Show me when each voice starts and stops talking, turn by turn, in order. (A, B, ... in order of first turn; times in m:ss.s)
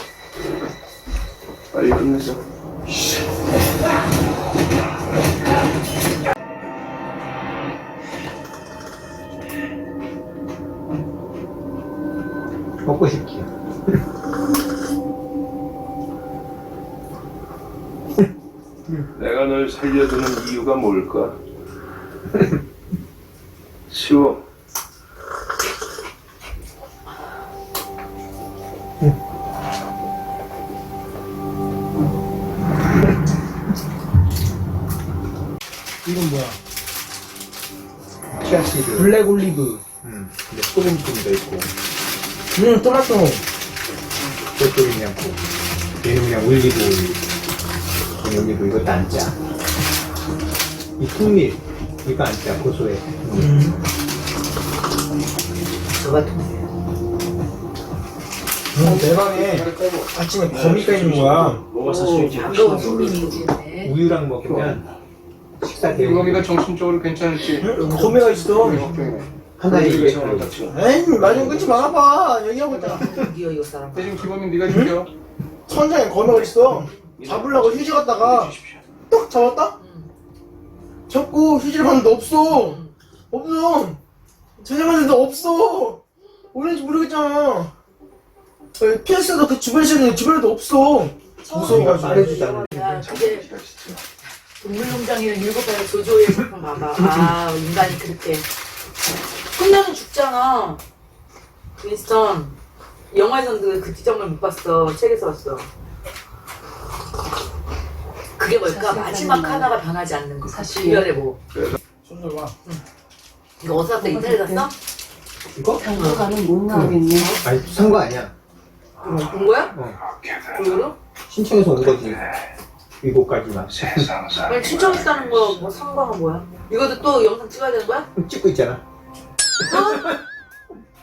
0:01.7-0:02.4 A
0:12.8-0:13.9 B
0:19.1-0:21.4 A
0:23.9-0:24.4 A
0:36.0-0:36.6 C
0:38.3-0:39.2 B
0:38.9-0:39.8 C
0:39.8-0:41.7 B
0:42.5-0:43.4 C
0:44.5-0:45.4 B
0:46.0-0:47.2 B
0:48.2-0:49.4 B
0:51.0-0:53.6 B
0:53.3-0:53.8 C
0:55.9-0:56.6 D
0:58.7-1:01.6 C
0:58.8-1:00.1 E
1:00.5-1:03.4 A
1:00.5-1:01.6 B
1:01.8-1:03.9 D
1:03.8-1:04.8 B
1:04.6-1:04.9 A
1:05.6-1:06.5 B
1:05.9-1:07.8 E
1:07.6-1:08.9 D
1:07.6-1:08.8 C
1:08.4-1:09.3 E
1:09.6-1:10.6 B
1:09.6-1:12.0 A
1:10.7-1:13.1 C
1:12.7-1:14.2 D
1:13.9-1:15.1 E
1:14.6-1:15.0 C
1:15.7-1:18.5 C
1:17.0-1:18.8 A
1:19.1-1:19.8 C
1:19.8-1:20.1 D
1:21.1-1:24.0 C
1:22.5-1:22.9 D
1:24.6-1:26.0 C
1:26.5-1:27.7 C
1:28.8-1:32.5 C
1:31.4-1:33.4 D
1:31.5-1:33.0 B
1:32.8-1:34.0 A
1:34.6-1:38.4 D
1:39.5-1:40.8 D
1:41.8-1:42.5 D
1:43.1-1:45.7 D
1:48.4-1:51.4 D
1:48.6-1:49.7 F
1:50.4-1:51.1 F
1:52.0-1:52.6 C
1:53.6-1:54.7 D
1:53.9-1:54.7 F
1:55.5-1:55.9 B
1:55.7-1:57.4 F
1:55.9-1:56.2 D
1:56.7-1:58.3 B
1:59.0-1:59.7 D
1:59.7-2:00.0 B
2:00.0-2:00.8 A
2:00.5-2:00.9 D
2:01.3-2:02.2 B
2:01.9-2:02.2 A
2:03.0-2:04.1 B
2:03.7-2:05.6 A
2:04.5-2:08.1 D
2:08.2-2:08.8 B
2:09.6-2:10.2 D
2:09.7-2:10.1 B